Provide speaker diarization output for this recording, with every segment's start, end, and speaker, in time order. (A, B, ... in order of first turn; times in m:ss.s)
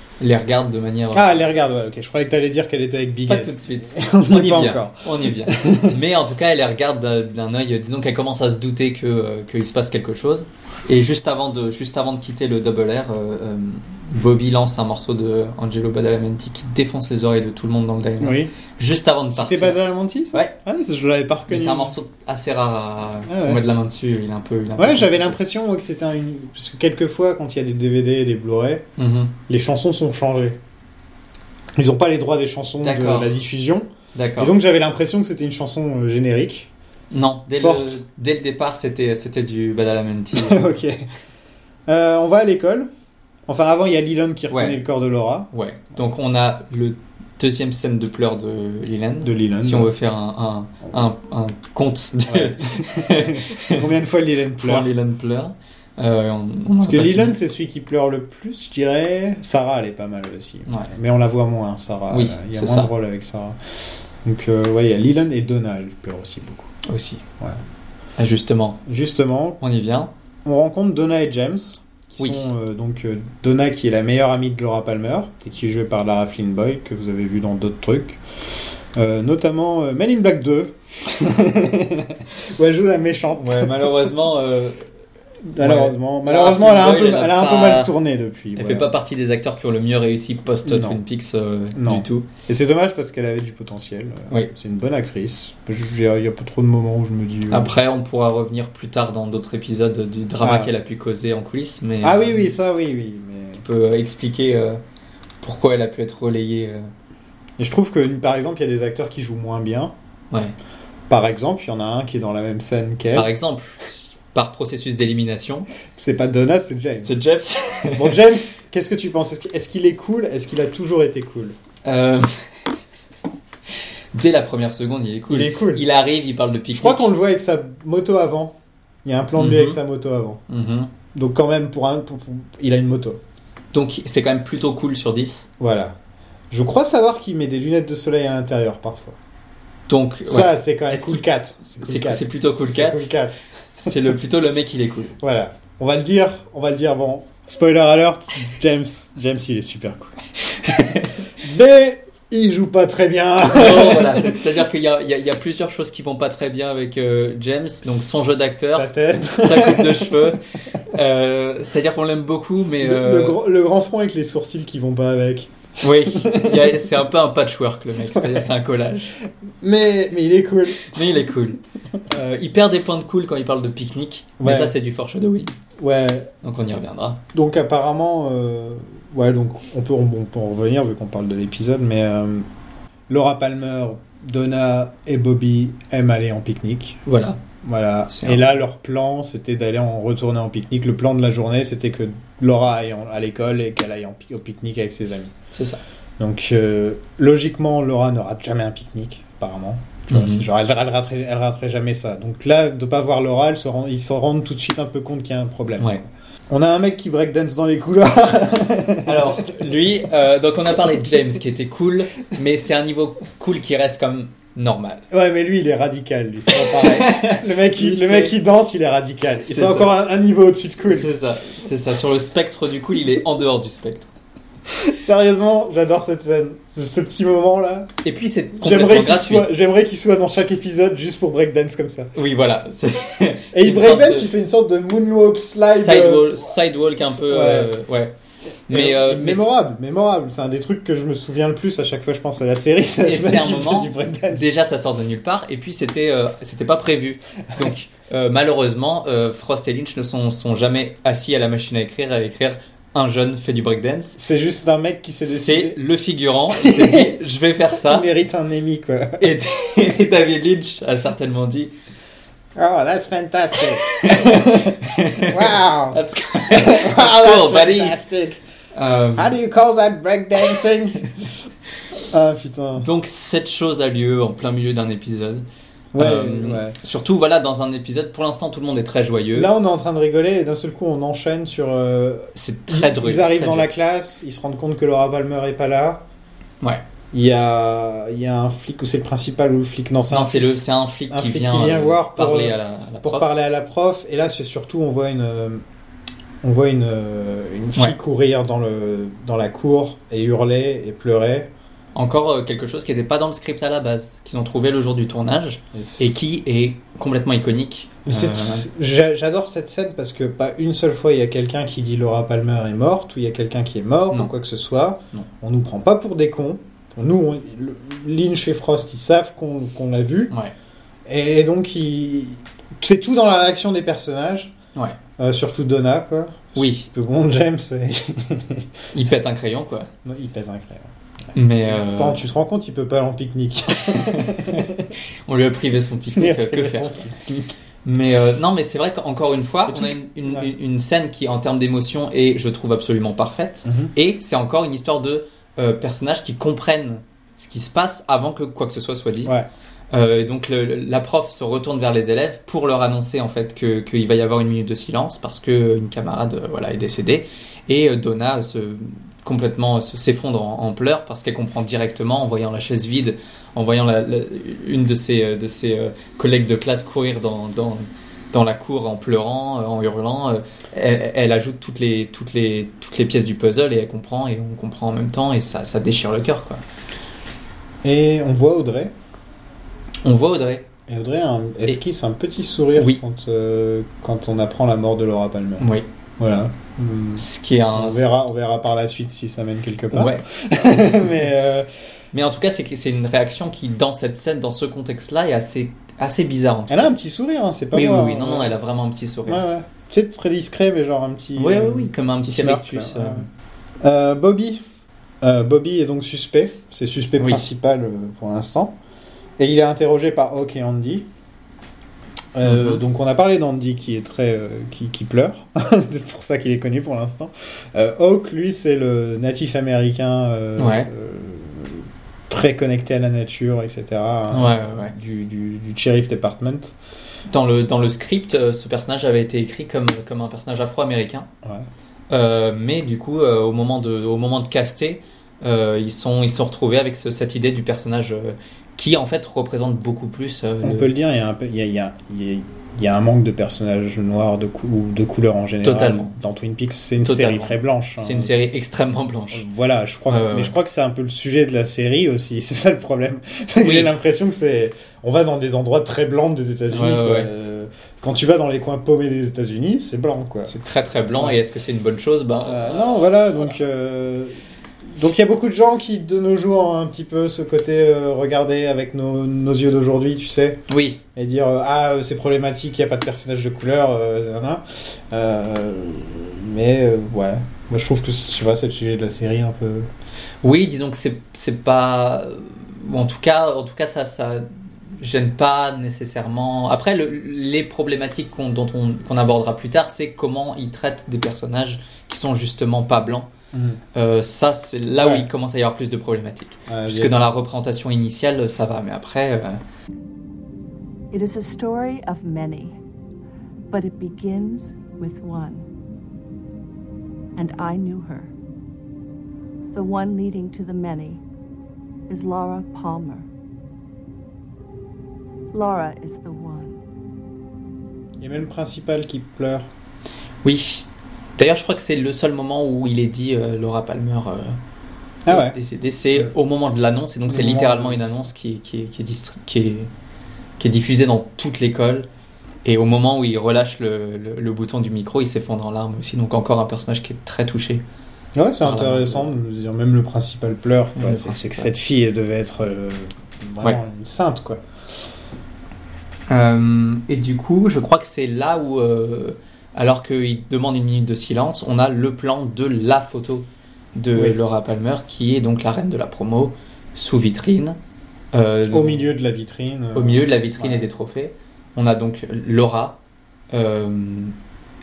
0:00.2-0:01.4 A
0:01.1-0:06.0 B
0:03.3-0:19.8 A
0:18.2-0:18.5 B
0:19.3-0:22.0 B
0:21.5-0:25.4 A
0:23.3-0:23.6 B
0:24.8-0:28.9 B
0:29.0-0:29.3 A
0:29.5-0:30.6 B
0:31.8-0:33.9 B
0:32.8-0:33.4 A
0:34.1-0:34.6 A
0:34.4-0:36.7 B
0:37.1-0:40.6 A
0:37.5-0:38.0 B
0:40.4-0:41.1 B
0:41.9-0:42.9 B
0:43.5-0:45.5 B
0:44.5-0:44.8 A
0:45.5-0:53.8 A
0:49.2-0:49.9 B
0:52.2-0:54.9 B
0:54.6-0:57.4 A
0:56.8-1:03.6 B
1:00.7-1:00.9 A
1:02.1-1:02.9 A
1:04.2-1:06.7 B
1:06.9-1:07.2 A
1:08.2-1:08.8 A
1:08.9-1:09.6 B
1:09.6-1:10.1 A
1:10.4-1:18.2 B
1:12.2-1:12.5 A
1:18.9-1:24.1 B
1:23.4-1:24.8 A
1:25.5-1:28.9 B
1:25.6-1:27.9 A
1:28.6-1:32.3 A
1:30.7-1:31.0 B
1:31.7-1:37.8 B
1:37.5-1:42.5 A
1:40.4-1:40.7 B
1:42.0-1:43.6 B
1:43.6-1:44.8 A
1:45.4-1:46.9 A
1:47.6-1:49.9 B
1:51.1-1:53.3 B
1:53.1-1:55.7 A
1:56.0-1:57.2 B
1:57.0-1:58.2 A
1:58.0-2:01.6 B
2:01.8-2:02.4 A
2:04.1-2:07.1 A
2:05.3-2:05.8 B
2:06.7-2:10.4 B
2:09.4-2:09.8 A
2:10.5-2:10.9 A
2:11.1-2:13.2 B
2:13.7-2:15.5 A
2:15.6-2:16.0 B
2:16.5-2:19.2 B
2:19.9-2:23.1 A
2:20.3-2:24.0 B
2:23.8-2:25.2 A
2:25.2-2:30.2 B
2:30.5-2:31.2 A
2:31.4-2:34.4 B
2:33.5-2:43.4 A
2:37.9-2:40.4 B
2:42.8-2:46.9 B
2:45.8-2:49.2 A
2:48.0-2:48.5 B
2:49.6-2:50.9 B
2:50.8-2:51.6 A
2:52.1-2:55.5 A
2:54.4-2:54.7 B
2:55.8-2:56.3 B
2:56.4-2:57.2 A
2:57.3-3:02.5 B
3:03.1-3:07.0 B
3:07.1-3:07.4 A
3:07.6-3:15.4 B
3:08.1-3:08.4 A
3:15.5-3:15.8 A
3:16.2-3:29.5 B
3:20.1-3:20.5 A
3:29.0-3:35.1 A
3:35.1-3:41.1 B
3:36.5-3:38.4 A
3:39.5-3:40.0 A
3:40.7-3:44.1 A
3:44.7-3:47.9 B
3:48.0-3:49.5 A
3:48.6-3:52.1 B
3:52.2-3:54.3 A
3:53.5-3:56.5 B
3:55.7-3:58.1 A
3:57.0-3:57.7 B
3:58.7-3:59.5 A
3:58.7-4:04.5 B
4:03.0-4:14.2 A
4:07.5-4:07.9 B
4:14.2-4:15.8 B
4:15.2-4:18.1 A
4:16.5-4:17.2 B
4:17.7-4:19.3 B
4:19.2-4:21.7 A
4:22.6-4:28.4 B
4:24.0-4:24.3 A
4:24.8-4:28.0 A
4:28.7-4:29.4 A
4:29.2-4:31.0 B
4:32.1-4:32.9 B
4:32.8-4:35.4 A
4:35.9-4:36.8 B
4:36.0-4:39.5 A
4:39.3-4:46.0 B
4:42.4-4:43.7 A
4:47.1-4:55.6 B
4:50.1-4:53.3 A
4:56.4-5:01.5 B
5:02.0-5:08.7 A
5:05.7-5:06.2 B
5:08.1-5:20.3 B
5:21.1-5:24.5 B
5:25.2-5:28.7 B
5:26.6-5:26.9 A
5:28.9-5:29.9 A
5:30.0-5:30.9 B
5:31.3-5:32.2 A
5:31.7-5:34.9 B
5:33.9-5:34.6 A
5:35.3-5:37.0 A
5:36.2-5:37.6 B
5:37.8-5:49.3 A
5:39.7-5:40.5 B
5:43.6-5:43.9 B
5:49.9-6:16.6 A
6:17.8-6:18.9 B
6:20.0-6:20.7 A
6:20.9-6:31.7 B
6:22.8-6:23.0 A
6:25.6-6:25.9 A
6:27.2-6:28.0 A
6:29.9-6:30.2 A
6:32.1-6:36.9 A
6:36.7-6:38.6 B
6:37.7-6:39.4 A
6:39.3-6:43.2 B
6:41.4-6:43.3 A
6:43.8-6:44.6 B
6:45.2-6:48.8 B
6:47.2-6:47.4 A
6:49.4-6:51.1 B
6:52.4-7:06.7 B
6:52.4-6:52.8 A
7:00.6-7:00.9 A
7:04.3-7:04.9 A
7:07.3-7:11.3 A
7:12.1-7:20.9 A
7:20.6-7:28.6 B
7:25.6-7:26.1 A
7:27.0-7:29.5 A
7:29.3-7:40.5 B
7:30.1-7:30.6 A
7:33.6-7:33.9 A
7:36.7-7:37.3 A
7:40.5-7:42.8 A
7:41.2-7:41.4 B
7:42.4-7:44.4 B
7:44.9-7:59.9 B
7:50.7-7:51.0 A
8:00.4-8:13.3 A
8:13.5-8:13.8 B
8:14.0-8:19.6 A
8:15.0-8:15.3 B
8:16.7-8:17.2 B
8:27.6-8:28.2 C
8:30.0-8:31.2 C
8:32.2-8:32.6 C
8:38.2-8:39.7 B
8:40.4-8:40.9 A
8:41.4-8:44.6 A
8:45.3-8:45.6 B
8:45.3-8:49.9 A
8:47.3-8:48.2 B
8:50.6-8:52.1 A
8:52.6-8:57.8 A
8:58.4-9:04.6 B
8:58.6-8:59.3 A
9:01.0-9:01.7 A
9:06.3-9:17.8 A
9:18.3-9:19.1 A
9:18.7-9:20.9 B
9:20.0-9:23.0 A
9:23.5-9:24.3 A